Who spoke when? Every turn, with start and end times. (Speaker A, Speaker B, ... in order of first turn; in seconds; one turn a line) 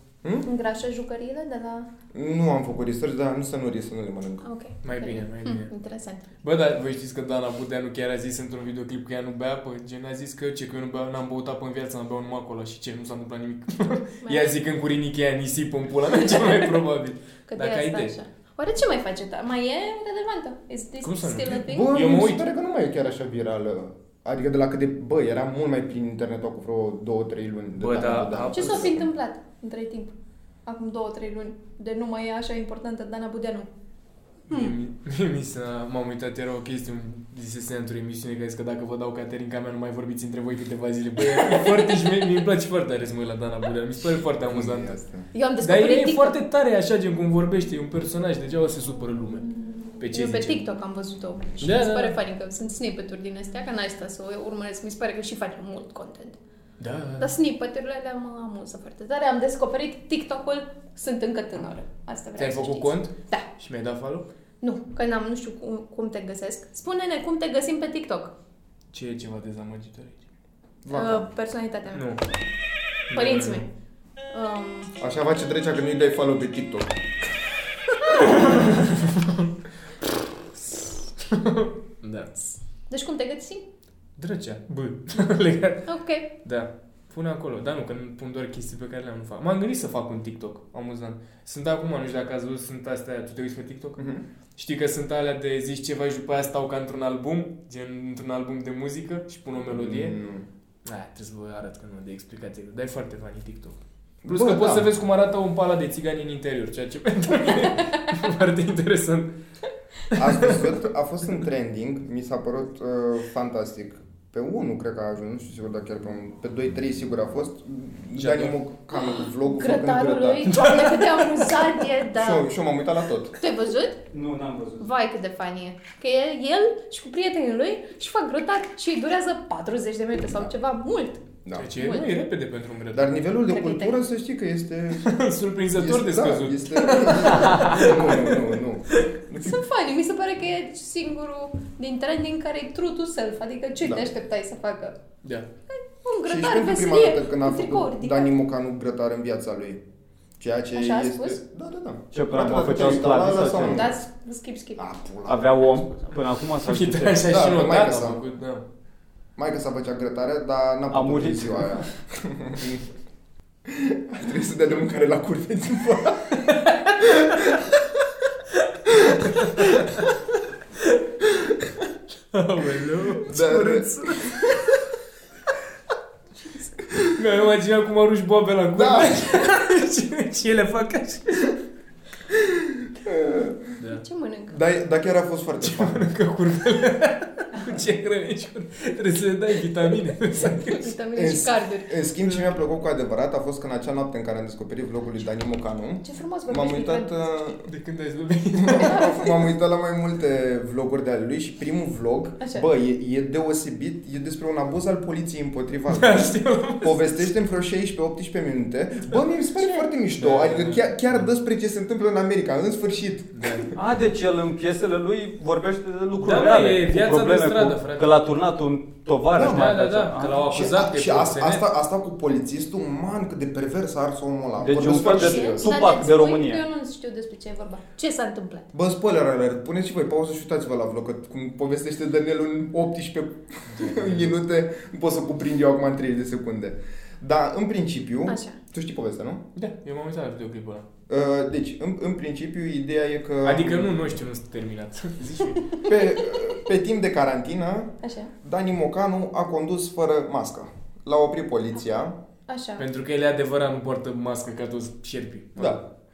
Speaker A: 0.4-1.9
Speaker B: 2.1-4.4
Speaker A: 4.4-6.3
Speaker C: 4.8-5.7
Speaker C: 6.4-18.1
Speaker A: 14.2-14.6
Speaker A: 16.2-16.7
Speaker A: 17.5-21.9
Speaker C: 21.0-22.5
Speaker B: 21.6-29.1
Speaker C: 27.8-29.1
Speaker A: 28.5-30.1
Speaker A: 30.6-33.7
Speaker C: 34.5-45.0
Speaker B: 44.5-45.3
Speaker A: 45.3-46.4
Speaker C: 45.6-50.6
Speaker A: 50.1-56.4
Speaker C: 51.6-52.2
Speaker C: 56.8-57.3
Speaker A: 57.2-63.5
Speaker C: 62.4-64.3
Speaker A: 64.6-68.3
Speaker C: 68.9-70.2
Speaker B: 70.8-71.3
Speaker A: 70.9-72.0
Speaker C: 72.0-72.2
Speaker C: 73.1-73.7
Speaker A: 73.1-73.7
Speaker A: 74.3-74.9
Speaker B: 75.0-77.0
Speaker C: 78.2-79.5
Speaker C: 80.7-82.5
Speaker A: 82.9-83.7
Speaker C: 84.2-94.0
Speaker A: 85.9-86.3
Speaker B: 94.0-94.2
Speaker C: 94.6-100.2
Speaker B: 99.7-100.5
Speaker C: 100.8-109.3
Speaker B: 104.2-104.9
Speaker C: 110.1-110.7
Speaker B: 110.2-120.8
Speaker C: 118.2-118.6
Speaker A: 118.9-122.5
Speaker C: 120.6-121.3
Speaker B: 122.1-123.4
Speaker A: 123.4-124.0
Speaker D: 124.1-124.9
Speaker A: 124.8-131.2
Speaker B: 131.4-131.7
Speaker C: 131.6-133.1
Speaker A: 131.8-132.1
Speaker B: 132.9-135.1
Speaker A: 133.5-134.0
Speaker C: 135.0-139.1
Speaker B: 135.7-139.6
Speaker A: 139.4-145.0
Speaker B: 143.8-144.1
Speaker A: 145.7-148.3
Speaker B: 146.3-149.8
Speaker B: 150.4-154.0
Speaker A: 150.7-151.4
Speaker D: 152.1-153.9
Speaker A: 153.6-154.8
Speaker B: 154.8-155.8
Speaker D: 155.2-157.3
Speaker C: 156.6-158.7
Speaker B: 157.2-158.2
Speaker B: 159.4-162.8
Speaker D: 160.9-161.8
Speaker B: 163.7-167.6
Speaker C: 166.5-166.8
Speaker B: 168.9-169.8
Speaker C: 169.1-170.2
Speaker C: 172.3-174.8
Speaker B: 173.2-174.7
Speaker A: 176.4-176.8
Speaker C: 177.1-181.6
Speaker B: 178.8-179.5
Speaker B: 182.3-183.8
Speaker A: 183.9-184.6
Speaker B: 184.5-186.1
Speaker C: 185.6-190.9
Speaker A: 190.4-191.9
Speaker B: 191.2-197.7
Speaker A: 196.0-197.5
Speaker C: 197.7-199.1
Speaker B: 198.6-213.7
Speaker A: 198.8-199.3
Speaker C: 205.9-207.1
Speaker A: 209.6-209.9
Speaker C: 210.2-211.3
Speaker C: 213.3-213.7
Speaker D: 213.8-220.5
Speaker C: 216.2-218.3
Speaker B: 219.3-219.8
Speaker C: 219.4-221.6
Speaker B: 220.4-225.7
Speaker D: 224.6-226.6
Speaker A: 224.9-228.7
Speaker B: 228.7-239.4
Speaker C: 233.7-234.3
Speaker A: 238.3-238.6
Speaker C: 239.6-240.9
Speaker B: 241.1-244.0
Speaker C: 243.4-245.8
Speaker B: 245.8-252.2
Speaker A: 248.0-248.3
Speaker A: 252.5-252.9
Speaker C: 252.8-255.8
Speaker B: 255.6-255.8